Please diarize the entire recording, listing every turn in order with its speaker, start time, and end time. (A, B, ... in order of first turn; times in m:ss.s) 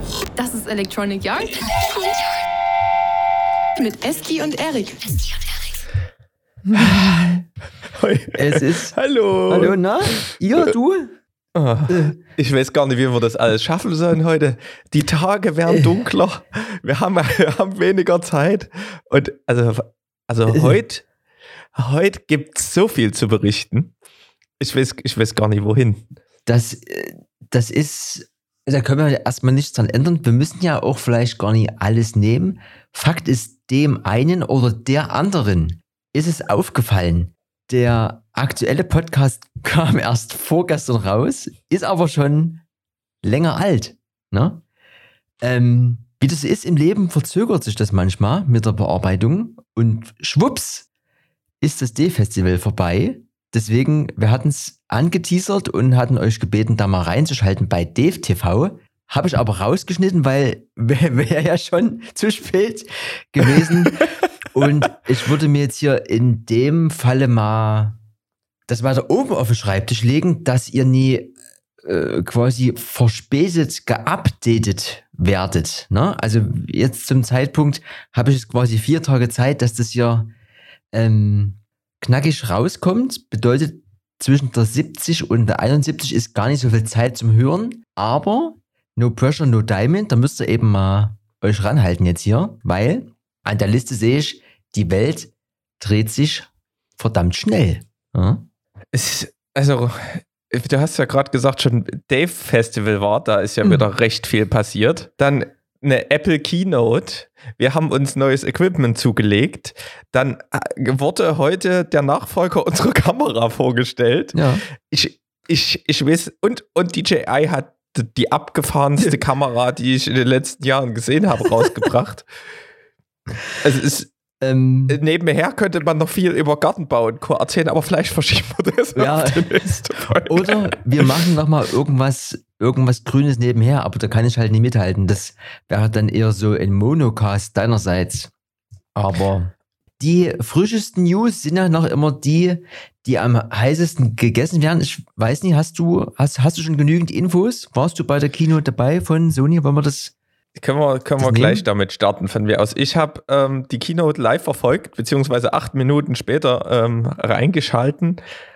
0:00.4-0:02.4 A
0:03.8-0:05.6 A
0:06.7-0:07.4 B
0:07.9-0:10.7 B
0:08.4-0:09.0 C
0:09.5-0:11.2 C
0:11.6-0:21.1 B
0:11.9-0:12.2 C
0:15.7-0:16.0 C
0:20.5-0:20.8 C
0:21.8-0:23.9 B
0:24.6-0:26.0 B
0:26.5-0:42.6 C
0:43.2-0:44.6 C
0:45.4-0:50.9 C
0:51.6-1:08.0 C
1:08.7-1:20.3 C
1:20.9-1:38.5 C
1:38.9-2:02.3 B
1:54.4-1:54.6 C
2:03.6-2:04.1 B
2:04.4-2:05.0 C
2:04.9-2:11.2 B
2:09.0-2:18.3 C
2:19.0-2:30.1 C
2:30.6-2:38.2 B
2:31.2-2:31.6 C